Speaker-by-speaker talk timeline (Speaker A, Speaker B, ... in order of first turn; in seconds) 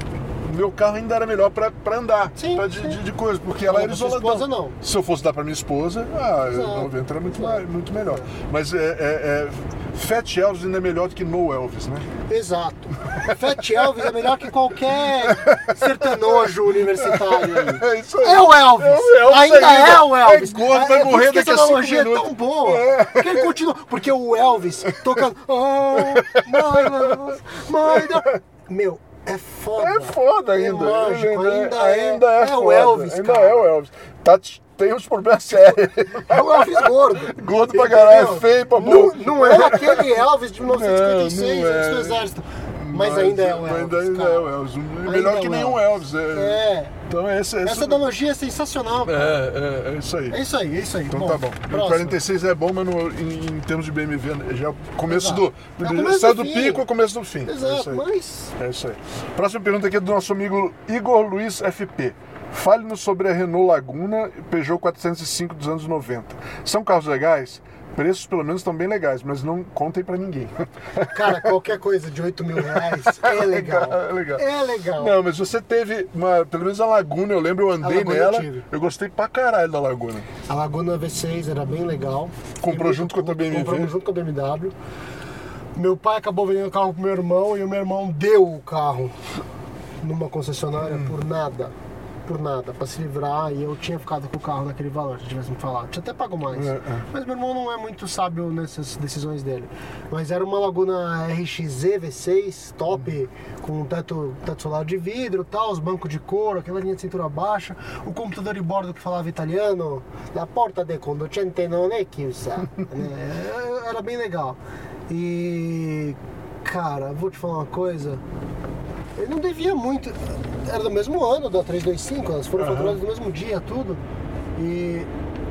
Speaker A: 0.4-12.1, 13.2-14.1, 15.0-23.6, 24.9-25.2, 25.9-27.2, 27.8-28.3, 29.8-48.0, 49.1-50.4, 51.1-58.0, 58.6-71.5, 72.6-80.3, 82.6-84.0, 90.8-91.2, 96.5-97.1, 122.6-123.0
Speaker B: 2.4-3.0, 3.6-4.8, 6.5-8.3, 12.3-33.7, 36.1-44.5, 45.0-47.0, 47.6-49.4, 50.3-52.2, 55.1-56.9, 57.5-58.5, 71.1-75.2, 77.8-78.7, 80.5-84.8, 85.8-89.2, 90.0-91.7, 92.3-114.6, 115.1-118.2, 119.2-124.0, 124.6-125.1